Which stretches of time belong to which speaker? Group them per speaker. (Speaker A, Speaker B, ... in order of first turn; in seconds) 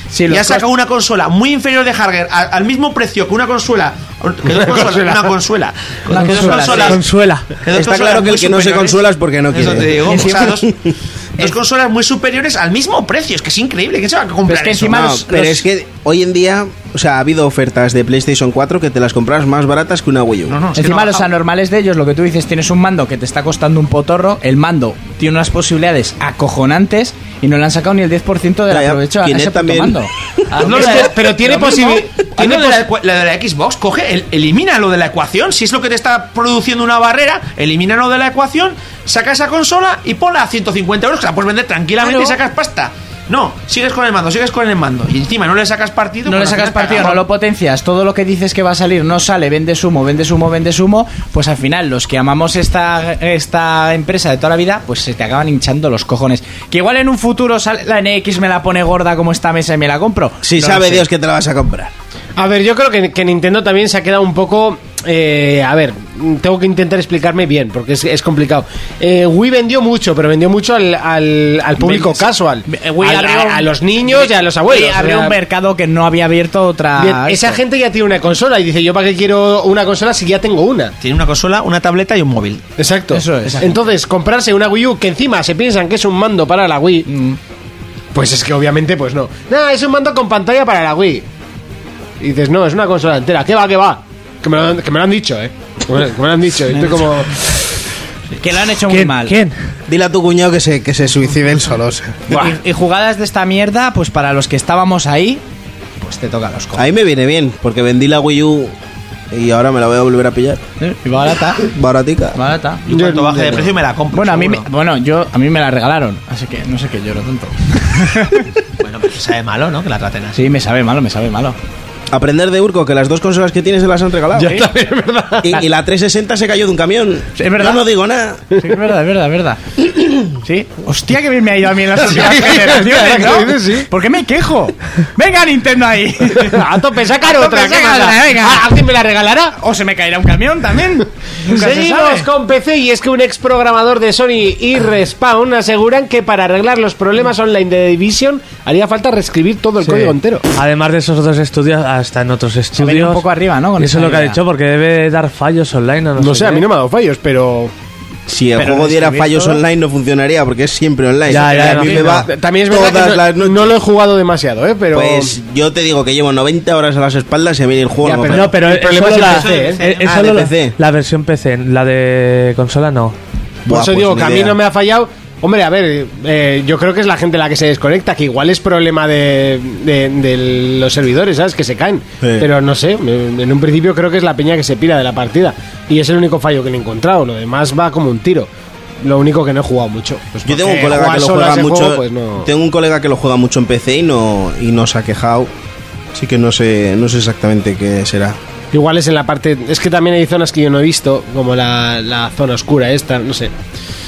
Speaker A: 0.1-0.6, 6.1-7.0, 10.0-10.5, 14.5-15.6, 20.7-31.1, 42.0-42.4, 46.2-61.1, 71.8-77.6, 83.1-83.7, 87.1-87.4, 96.7-97.0, 98.4-99.4, 102.3-105.4, 106.0-106.9, 110.8-111.7, 112.3-112.8, 114.1-118.5, 120.3-121.6, 127.4-127.8, 128.6-129.6, 130.4-136.6, 137.2-138.6, 139.6-142.3, 152.7-154.4, 158.5-159.6
Speaker B: 0.3-7.0, 7.6-10.7, 11.4-15.1, 20.5-21.3, 30.6-47.2, 81.0-82.7, 112.9-114.7, 118.8-120.4, 169.1-170.2
Speaker C: 6.2-7.6, 98.8-99.5, 149.8-153.2, 153.8-156.6, 161.3-162.2, 168.2-173.1
Speaker D: 7.7-10.9, 14.9-20.6, 28.7-30.1, 60.4-61.9, 99.9-102.4, 106.8-108.7, 109.3-110.6, 111.6-112.4, 122.1-124.6, 125.4-128.4, 158.3-163.7, 164.9-168.6, 170.0-170.8, 173.7-174.6, 182.2-182.5, 190.4-195.5, 196.1-198.4
Speaker E: 30.6-32.8, 62.4-75.4, 77.0-80.9, 82.8-87.1, 88.1-91.2, 92.2-97.5, 112.9-113.7, 124.4-125.6, 132.0-133.9, 136.4-139.5, 141.5-150.4, 156.2-157.7, 161.6-165.3, 168.0-169.9, 173.7-188.5, 189.0-192.5, 198.7-203.5